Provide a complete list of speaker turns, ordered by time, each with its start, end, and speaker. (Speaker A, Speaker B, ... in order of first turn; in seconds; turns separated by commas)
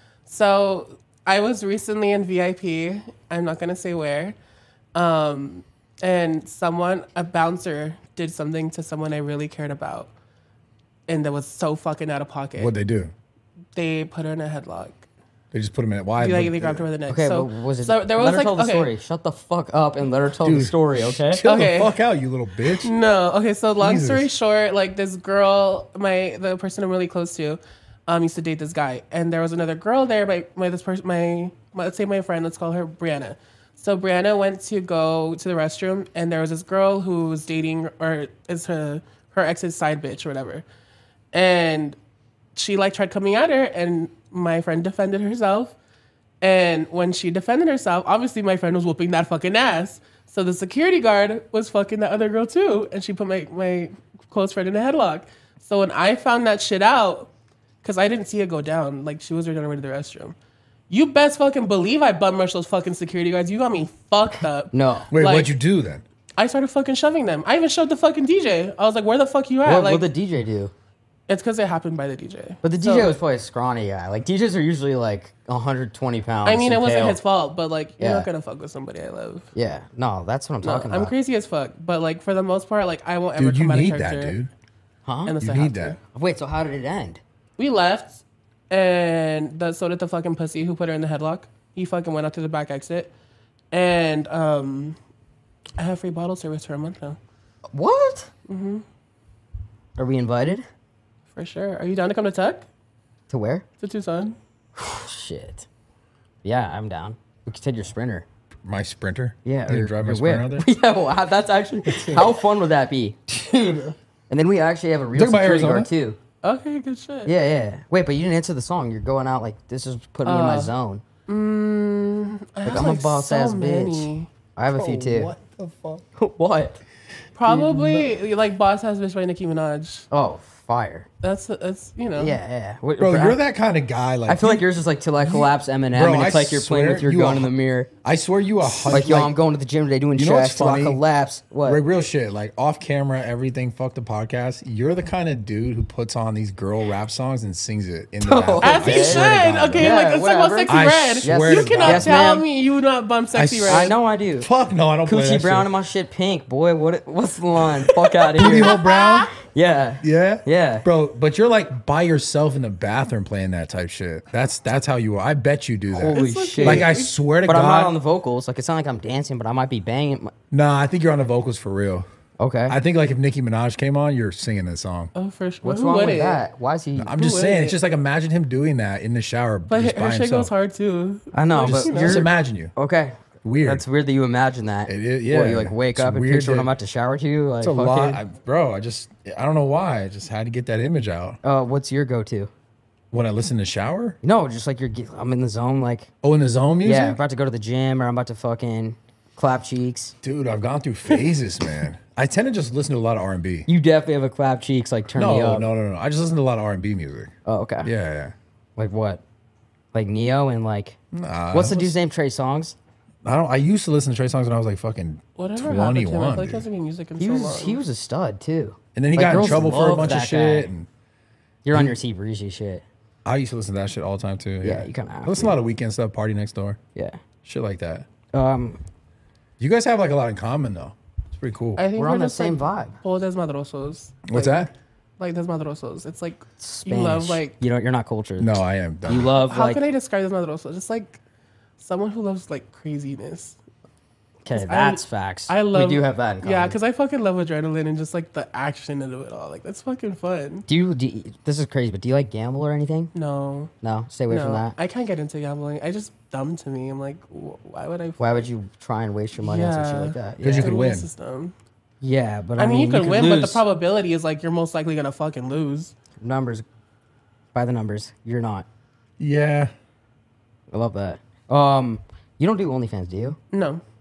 Speaker A: 0.3-4.4, Speaker A: 5.0-10.1, Speaker A: 11.1-12.7, Speaker B: 12.6-13.1, Speaker A: 13.8-15.1, Speaker B: 15.5-16.9, Speaker A: 16.2-18.9, Speaker C: 17.1-21.4, Speaker B: 20.4-22.9, Speaker A: 21.4-22.0, Speaker A: 22.8-40.6, Speaker B: 23.8-24.3, Speaker A: 41.3-42.0, Speaker A: 42.5-45.8, Speaker A: 46.4-57.3, Speaker A: 57.8-60.4, Speaker A: 60.9-65.5, Speaker C: 64.7-65.1, Speaker B: 65.1-66.0, Speaker A: 66.4-70.1, Speaker C: 69.7-70.7, Speaker A: 71.3-73.2, Speaker C: 72.6-77.2, Speaker A: 76.5-79.5, Speaker C: 78.0-78.3, Speaker C: 79.5-81.1, Speaker A: 80.6-84.4, Speaker B: 83.4-84.5, Speaker C: 85.0-85.4, Speaker A: 85.3-86.0, Speaker B: 85.4-86.0, Speaker C: 86.0-87.2, Speaker A: 87.6-93.1, Speaker A: 93.7-95.0, Speaker A: 95.8-97.2, Speaker C: 97.7-98.3, Speaker A: 98.5-98.8, Speaker C: 100.0-100.7, Speaker A: 101.3-102.7, Speaker C: 103.3-103.7, Speaker A: 103.8-104.4, Speaker C: 104.8-105.7, Speaker C: 106.4-108.3, Speaker B: 108.7-110.7, Speaker C: 109.5-116.2, Speaker B: 111.9-112.3, Speaker B: 113.6-113.9, Speaker B: 115.2-115.9, Speaker A: 116.4-117.3, Speaker C: 117.3-121.0, Speaker A: 120.2-120.7, Speaker A: 121.3-124.3, Speaker C: 122.6-125.3, Speaker B: 124.7-126.0, Speaker C: 126.2-126.8, Speaker A: 127.3-130.1, Speaker B: 127.5-128.1, Speaker C: 130.1-131.1, Speaker A: 131.2-132.4, Speaker C: 132.2-133.4, Speaker B: 133.0-134.6, Speaker C: 134.3-137.9, Speaker B: 135.2-137.5, Speaker B: 138.0-139.3, Speaker C: 138.8-141.8, Speaker B: 140.2-141.0, Speaker B: 141.6-149.9, Speaker C: 148.2-152.5, Speaker A: 148.6-153.9, Speaker B: 150.7-152.3, Speaker B: 153.3-155.7, Speaker C: 153.7-154.5, Speaker C: 155.0-158.8, Speaker B: 158.3-159.4, Speaker A: 158.4-159.3, Speaker C: 159.4-160.9, Speaker B: 160.0-167.9, Speaker C: 165.9-166.9, Speaker A: 166.1-167.1, Speaker C: 167.4-170.3, Speaker B: 170.5-172.1, Speaker C: 172.4-172.8, Speaker B: 172.7-175.1, Speaker A: 175.2-176.4, Speaker C: 175.6-177.1, Speaker B: 177.0-180.5, Speaker A: 177.2-177.8, Speaker A: 179.7-182.3, Speaker C: 181.3-188.2, Speaker B: 181.6-182.7, Speaker B: 183.4-183.8, Speaker B: 184.9-186.7, Speaker B: 187.6-191.4, Speaker C: 191.4-192.5, Speaker B: 193.1-194.2, Speaker C: 194.2-196.1, Speaker B: 196.2-197.2, Speaker C: 196.8-200.2, Speaker B: 200.2-203.7, Speaker C: 203.7-205.7, Speaker B: 205.2-208.3, Speaker C: 207.5-207.9, Speaker C: 208.8-209.2, Speaker C: 209.9-211.0, Speaker B: 211.1-211.9, Speaker C: 211.5-212.8, Speaker B: 213.2-216.7, Speaker A: 215.4-217.8, Speaker C: 217.2-220.7, Speaker B: 218.9-220.9, Speaker C: 221.7-222.8, Speaker B: 223.2-226.8, Speaker C: 224.6-225.6, Speaker B: 227.4-228.1, Speaker C: 228.3-228.8, Speaker B: 229.6-231.8, Speaker A: 231.8-237.6, Speaker C: 231.9-233.0, Speaker B: 234.3-234.7, Speaker C: 236.6-238.6, Speaker B: 238.4-239.3, Speaker C: 239.1-239.8, Speaker A: 239.4-241.2, Speaker A: 241.8-243.6, Speaker C: 244.4-246.8, Speaker A: 244.5-250.7, Speaker C: 250.7-253.1, Speaker A: 253.1-253.7, Speaker C: 253.8-254.8, Speaker A: 254.3-258.5, Speaker C: 258.2-260.8, Speaker A: 259.4-261.6, Speaker B: 260.4-261.1, Speaker C: 262.0-263.6, Speaker A: 262.6-265.9, Speaker C: 266.2-266.6, Speaker C: 267.5-268.7, Speaker B: 269.2-269.7, Speaker C: 270.7-273.4, Speaker A: 273.5-273.8